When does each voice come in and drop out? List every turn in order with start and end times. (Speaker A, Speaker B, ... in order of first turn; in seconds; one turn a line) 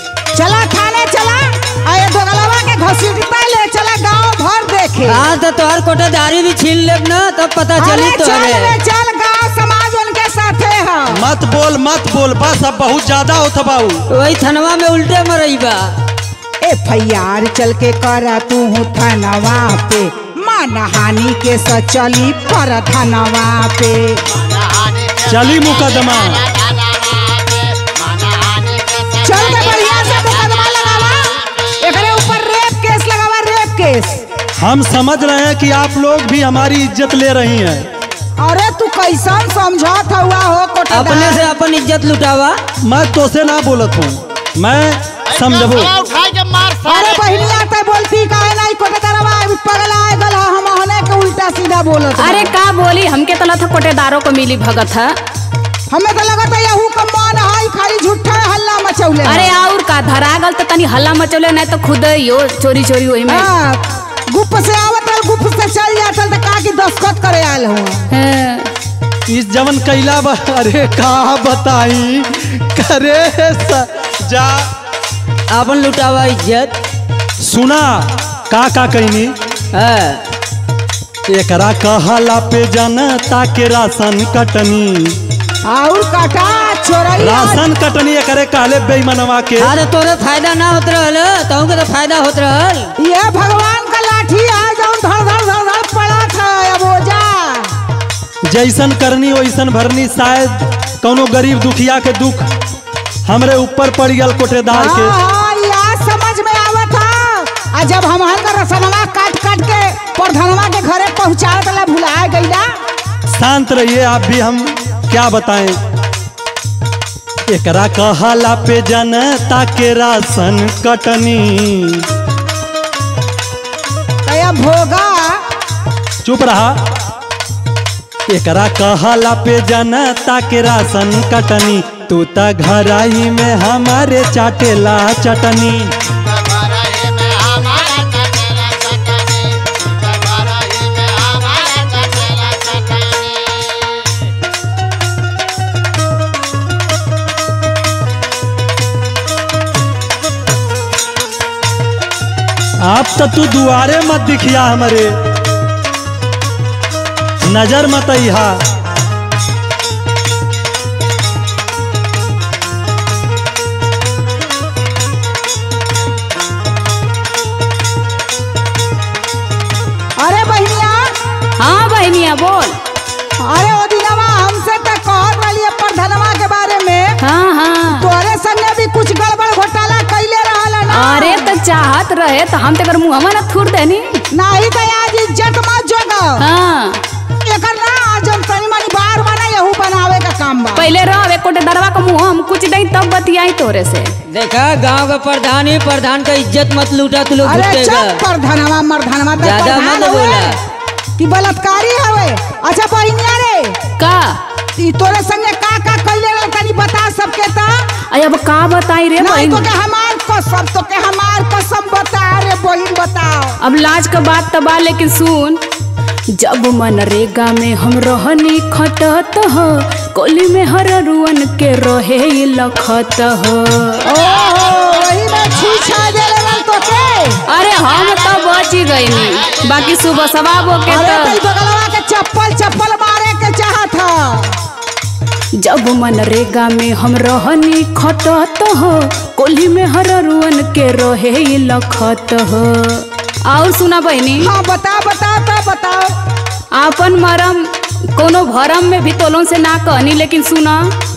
Speaker A: 0.3-5.3
Speaker B: 5.0-8.7
Speaker A: 7.8-11.3
Speaker C: 11.1-14.0
Speaker B: 14.1-15.8
Speaker A: 16.6-24.2
Speaker D: 24.4-31.0
Speaker C: 25.3-26.5
Speaker A: 29.2-34.2
Speaker C: 34.6-37.9
Speaker A: 38.4-41.4
Speaker B: 40.9-42.6
Speaker C: 42.8-46.0
Speaker D: 45.3-47.6
Speaker A: 46.9-52.5
Speaker E: 52.2-55.2
Speaker A: 55.9-59.5
Speaker E: 59.2-63.5
Speaker A: 63.3-68.1
Speaker E: 68.1-68.7
Speaker C: 69.3-74.7
Speaker B: 75.5-76.7
Speaker C: 77.4-79.3
Speaker B: 79.7-80.2
Speaker C: 81.3-85.2
Speaker A: 85.7-87.7
Speaker C: 87.2-89.7
Speaker B: 89.6-92.9
Speaker A: 93.0-97.7
Speaker C: 98.5-102.5
Speaker C: 103.3-105.2
Speaker A: 104.7-112.7
Speaker C: 113.3-115.8
Speaker C: 117.5-122.1
Speaker A: 124.3-125.4
Speaker C: 126.2-126.8
Speaker C: 128.3-135.9
Speaker D: 136.1-144.2
Speaker C: 152.8-155.1
Speaker C: 157.4-158.6
Speaker A: 170.2-171.1
Speaker E: 171.6-172.8
Speaker A: 173.4-177.2
Speaker E: 177.2-178.1
Speaker A: 177.9-181.5
Speaker E: 180.9-184.2
Speaker A: 184.3-186.4
Speaker E: 186.4-187.0
Speaker A: 187.4-190.9
Speaker E: 190.8-194.1
Speaker B: 194.3-198.2
Speaker A: 197.4-200.6
Speaker B: 199.4-200.6
Speaker A: 201.2-203.8
Speaker E: 204.0-204.4
Speaker A: 204.8-207.9
Speaker E: 208.1-209.7
Speaker A: 209.2-213.6
Speaker E: 213.6-215.6
Speaker E: 216.3-224.0
Speaker A: 224.0-227.4
Speaker D: 224.3-226.6
Speaker E: 227.5-231.4
Speaker D: 227.9-230.8
Speaker A: 230.9-234.6
Speaker E: 235.6-244.5
Speaker A: 244.4-246.1
Speaker E: 246.7-250.9